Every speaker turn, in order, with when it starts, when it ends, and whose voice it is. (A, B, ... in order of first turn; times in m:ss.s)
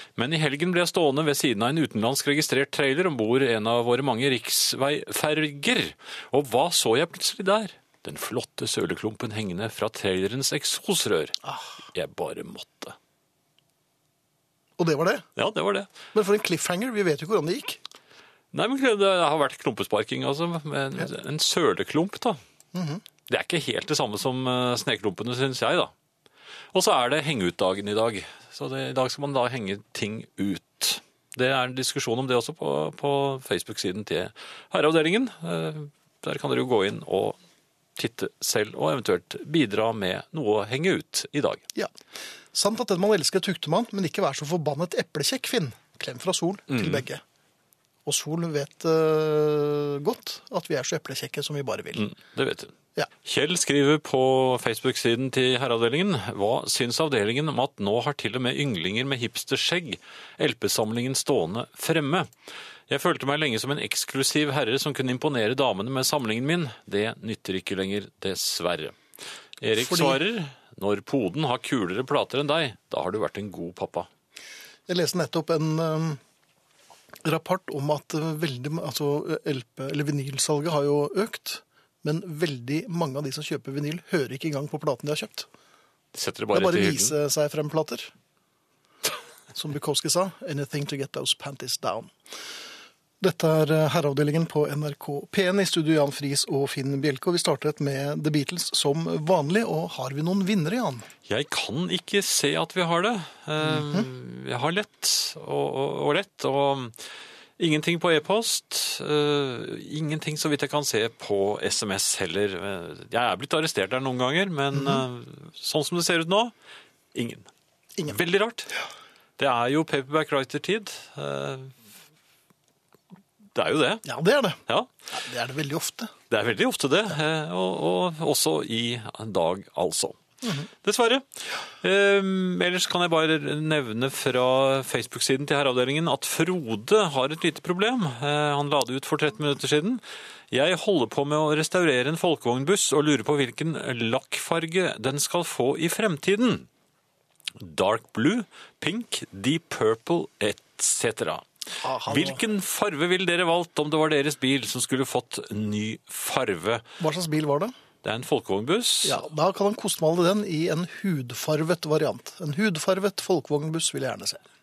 0:00.2-0:11.4 A
0:11.4-0:11.7 B
0:11.9-0:13.0 A
0:14.8-0:15.3 B
0:15.4-0:15.9 A
0:16.1-0:17.8 B
0:18.5-0:22.4 A
0:22.7-0:23.0 B
0:23.3-0:25.9 A
0:26.7-0:37.4 A
0:38.0-0:41.6 A
0:42.5-0:47.2 B
0:46.7-0:47.0 A
0:48.0-0:52.1 B
0:52.0-1:02.3 A
1:02.9-1:09.0 A
1:09.6-1:14.1 A
1:09.8-1:10.2 B
1:14.9-1:16.2 B
1:17.2-1:25.5 B
1:26.1-1:27.2 A
1:26.5-1:28.1 B
1:29.5-1:32.1 B
1:33.2-1:41.1 B
1:41.3-1:47.0 A
1:43.6-1:44.1 B
1:47.6-1:56.5 A
1:54.8-1:55.0 B
1:57.1-1:57.5 A
1:58.1-1:58.7 A
1:59.4-2:01.8 A
2:03.6-2:04.0 A
2:04.0-2:04.6 B
2:05.1-2:06.1 B
2:06.3-2:10.2 A
2:10.7-2:11.3 A
2:11.8-2:26.7 A
2:27.6-2:31.5 A
2:31.8-2:32.4 B
2:32.1-2:36.8 A
2:37.0-2:37.7 B
2:38.0-2:39.2 A
2:39.0-2:44.4 B